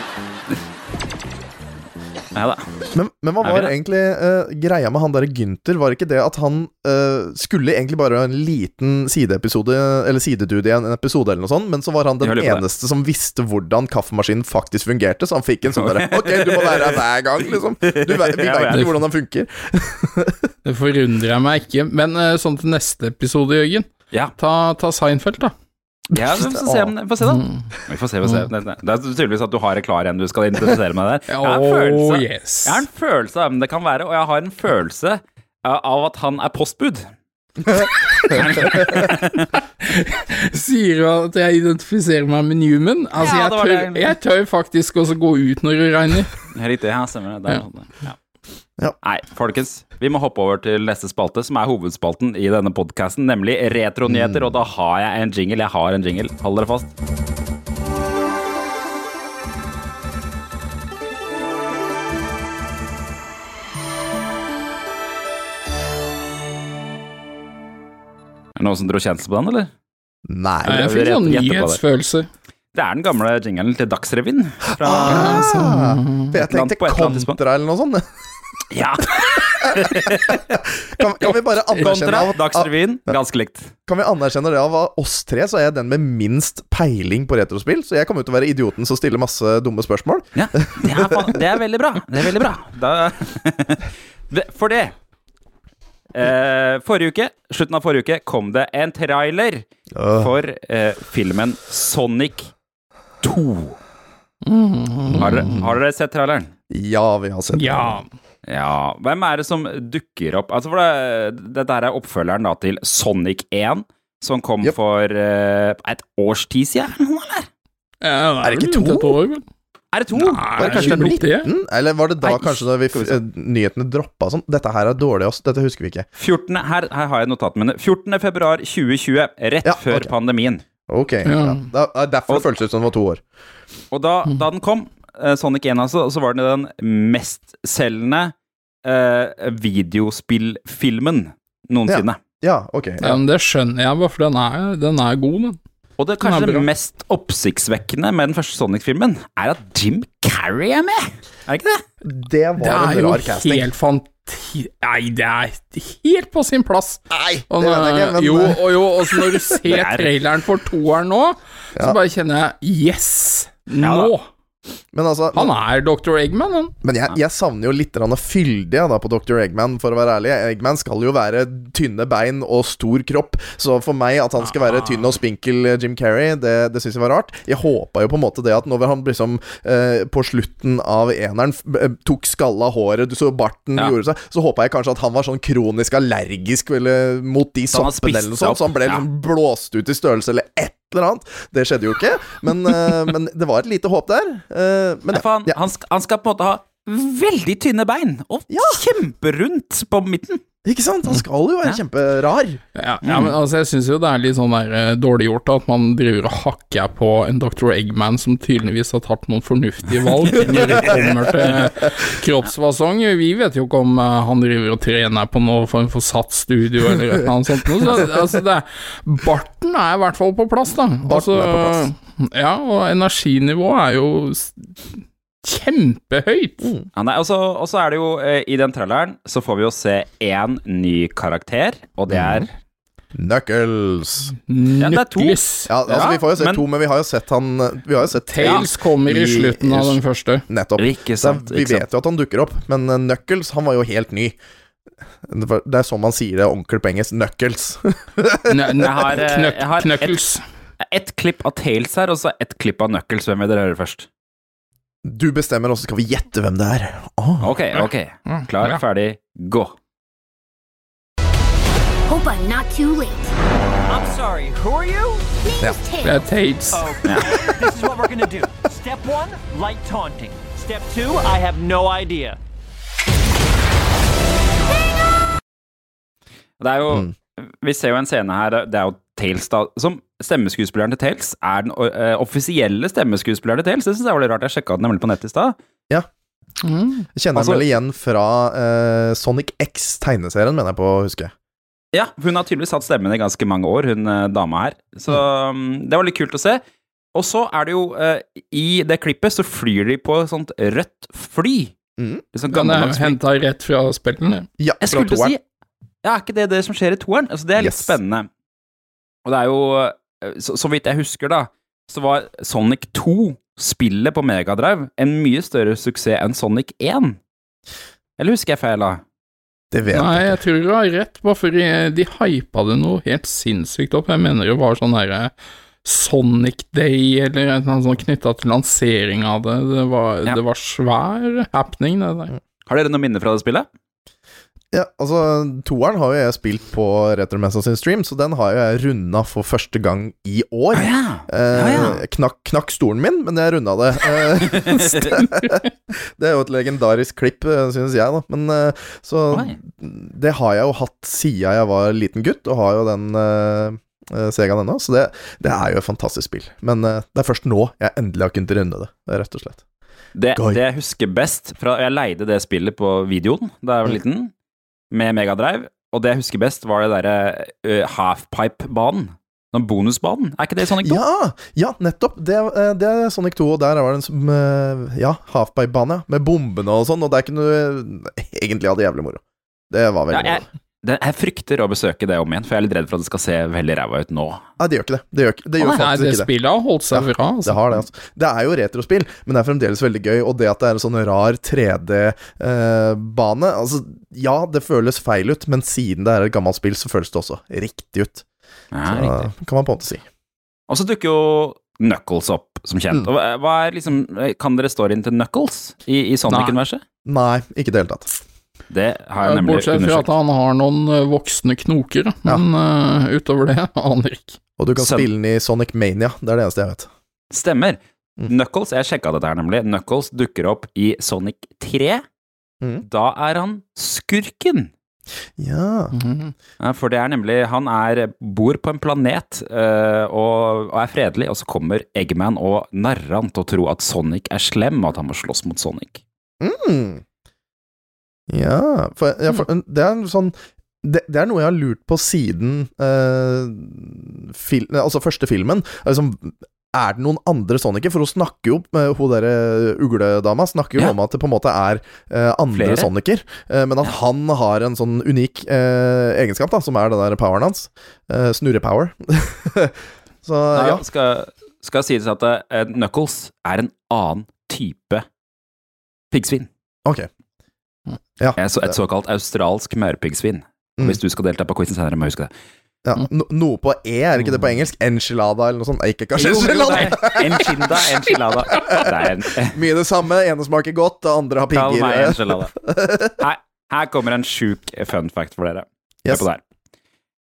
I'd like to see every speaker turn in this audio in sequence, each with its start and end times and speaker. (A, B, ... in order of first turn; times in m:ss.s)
0:02.3-0:02.6 A
0:02.9-0:20.5 B
0:03.4-0:03.7 A
0:12.2-0:12.6 A
0:15.7-0:18.9 A
0:20.6-0:25.5 C
0:26.1-0:26.9 B
0:26.1-0:37.0 A
0:27.3-0:27.6 C
0:31.3-0:32.8 C
0:38.2-0:39.5 A
0:39.8-0:46.3 C
0:43.2-0:44.1 A
0:46.5-0:48.2 A
0:49.0-0:56.9 A
0:54.1-0:54.5 B
1:08.6-1:09.7 A
1:10.3-1:10.8 B
1:10.6-1:12.3 C
1:10.7-1:11.8 A
1:12.7-1:15.4 A
1:14.8-1:18.1 B
1:15.1-1:16.3 C
1:16.5-1:17.4 A
1:18.7-1:20.4 A
1:19.6-1:23.1 B
1:21.8-1:22.1 C
1:21.8-1:23.7 A
1:23.9-1:31.3 B
1:30.3-1:34.9 A
1:36.1-1:42.5 A
1:39.9-1:40.3 B
1:43.2-1:43.8 A
1:44.4-1:45.6 C
1:45.1-1:46.5 A
1:45.2-1:45.7 B
1:46.7-1:48.0 B
1:47.5-1:48.1 C
1:48.5-1:57.5 A
1:58.0-1:59.4 C
1:58.4-1:59.2 B
1:59.9-2:01.2 A
2:00.2-2:01.5 C
2:00.6-2:06.1 B
2:02.2-2:03.2 A
2:06.2-2:10.6 A
2:09.6-2:10.1 B
2:10.9-2:13.2 B
2:11.2-2:11.7 C
2:13.9-2:18.3 A
2:18.8-2:22.2 A
2:21.9-2:23.2 B
2:23.0-2:25.6 C
2:26.0-2:31.8 A
2:26.2-2:26.7 C
2:32.0-2:33.7 B
2:32.6-2:44.2 C
2:37.1-2:39.4 B
2:39.7-2:40.1 A
2:43.8-2:44.1 A
2:44.9-2:45.5 B
2:45.3-2:46.7 C
2:46.8-3:15.6 B
3:07.7-3:09.0 A
3:15.1-3:20.4 A
3:18.5-3:18.8 B
3:20.6-3:22.6 B
3:22.8-3:46.7 C
3:23.0-3:23.3 A
3:30.4-3:31.5 A
3:30.5-3:31.0 B
3:41.0-3:41.8 B
3:46.6-3:46.9 B
3:46.9-3:52.5 A
3:52.1-3:52.5 B
3:53.1-3:54.3 B
3:54.5-3:55.8 C
3:54.8-3:56.6 A
3:55.7-4:04.4 B
3:58.3-4:00.4 C
4:00.8-4:01.8 A
4:05.2-4:08.6 B
4:08.5-4:10.4 C
4:08.8-4:10.2 A
4:10.8-4:14.1 A
4:15.0-4:17.5 B
4:17.4-4:19.7 A
4:18.3-4:18.8 C
4:22.1-4:23.3 D
4:23.8-4:25.3 E
4:25.4-4:26.4 D
4:26.0-4:26.9 C
4:26.7-4:32.4 E
4:36.6-4:45.6 A
4:46.6-4:47.1 C
4:47.1-4:51.3 B
4:47.3-4:47.6 A
4:51.9-4:56.6 A
4:57.1-5:01.7 A
5:02.0-5:02.2 B
5:02.3-5:03.2 A
5:02.5-5:04.5 C
5:04.6-5:05.3 B
5:04.8-5:05.4 A
5:06.0-5:08.3 A
5:07.6-5:07.9 B
5:09.2-5:17.2 A
5:18.2-5:19.0 A
5:19.7-5:20.4 B
5:19.9-5:25.3 C
5:25.8-5:32.3 C
5:32.6-5:33.7 A
5:34.7-5:59.6 B
5:40.7-5:42.0 A
5:44.5-5:45.2 A
5:49.3-5:49.6 A
6:00.1-6:04.3 A
6:00.4-6:00.6 B
6:04.9-6:11.0 A
6:10.8-6:20.4 B
6:20.1-6:24.4 A
6:24.6-6:26.3 B
6:25.6-6:27.8 C
6:26.9-6:38.2 B
6:38.7-6:39.1 A
6:38.8-6:40.0 B
6:40.7-6:46.8 A
6:46.3-6:46.6 C
6:47.0-6:48.1 B
6:48.7-6:50.1 A
6:49.2-6:54.4 C
6:54.6-6:56.9 B
6:54.8-6:55.1 A
6:57.3-7:02.0 A
7:02.8-7:04.7 A
7:05.4-7:06.0 B
7:06.0-7:06.3 C
7:06.6-7:16.0 A
7:16.4-7:17.0 B
7:18.3-7:40.8 B
7:32.5-7:32.9 A
7:40.5-7:45.0 A
7:46.1-7:46.5 A
7:48.2-7:48.7 B
7:48.4-7:52.3 A
7:52.8-7:57.8 B
7:56.2-7:59.6 A
7:58.6-7:58.9 B
7:59.5-8:03.2 B
8:01.5-8:02.5 A
8:03.2-8:06.4 A